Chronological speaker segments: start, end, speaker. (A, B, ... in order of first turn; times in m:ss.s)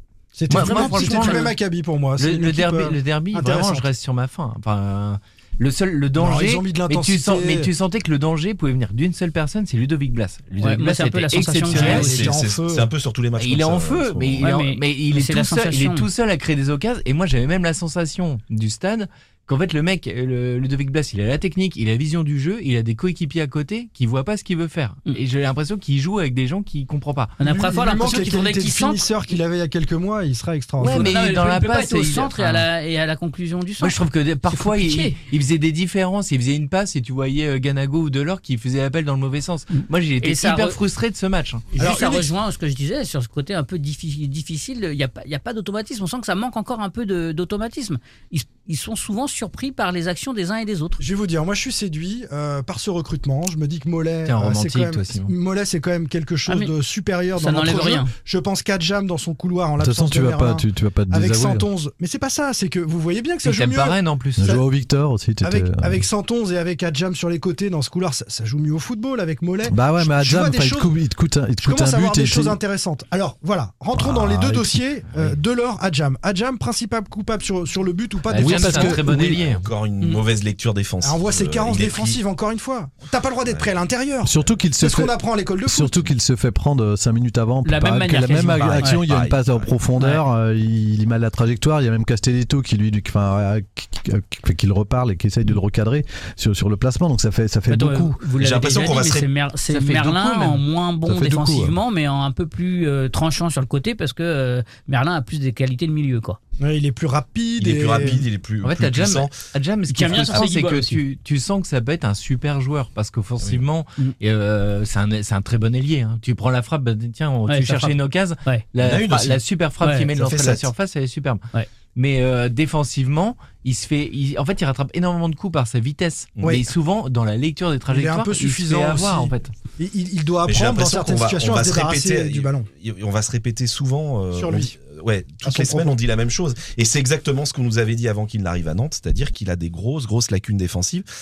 0:00.4-0:03.9 A
0:00.5-0:01.6 B
0:00.5-0:01.5 C
0:02.2-0:12.1 B
0:06.2-0:07.7 A
0:10.6-0:12.3 C
0:11.6-0:12.9 A
0:11.8-0:14.5 D
0:13.4-0:27.4 B
0:14.4-0:16.1 C
0:27.4-0:29.1 C
0:27.4-0:31.1 A
0:30.8-0:32.7 B
0:30.8-0:34.0 C
0:33.8-0:41.7 B
0:34.5-0:35.2 C
0:39.8-0:40.8 C
0:41.8-0:42.3 A
0:41.8-0:51.0 C
0:51.0-1:04.6 A
0:54.3-0:55.3 B
0:56.5-0:56.7 C
0:57.4-0:58.1 C
0:59.8-1:01.7 E
1:03.4-1:04.6 B
1:04.4-1:06.0 E
1:05.4-1:10.9 A
1:09.7-1:12.6 E
1:11.6-1:19.0 A
1:13.9-1:14.8 E
1:18.3-1:19.7 B
1:18.4-1:19.4 E
1:19.3-1:22.2 D
1:21.0-1:26.0 A
1:24.2-1:38.2 E
1:27.6-1:29.0 C
1:28.5-1:29.7 D
1:37.7-1:46.4 C
1:38.4-1:39.3 D
1:39.7-1:40.6 B
1:41.1-1:41.8 E
1:46.6-1:48.2 A
1:47.6-1:49.4 D
1:48.6-2:01.4 B
1:49.9-1:51.0 C
1:50.1-1:50.4 D
1:57.5-1:58.6 C
1:58.8-1:59.4 D
2:00.1-2:00.7 D
2:02.0-2:09.5 B
2:07.9-2:12.7 A
2:10.4-2:21.1 D
2:14.3-2:14.8 A
2:15.4-2:16.0 A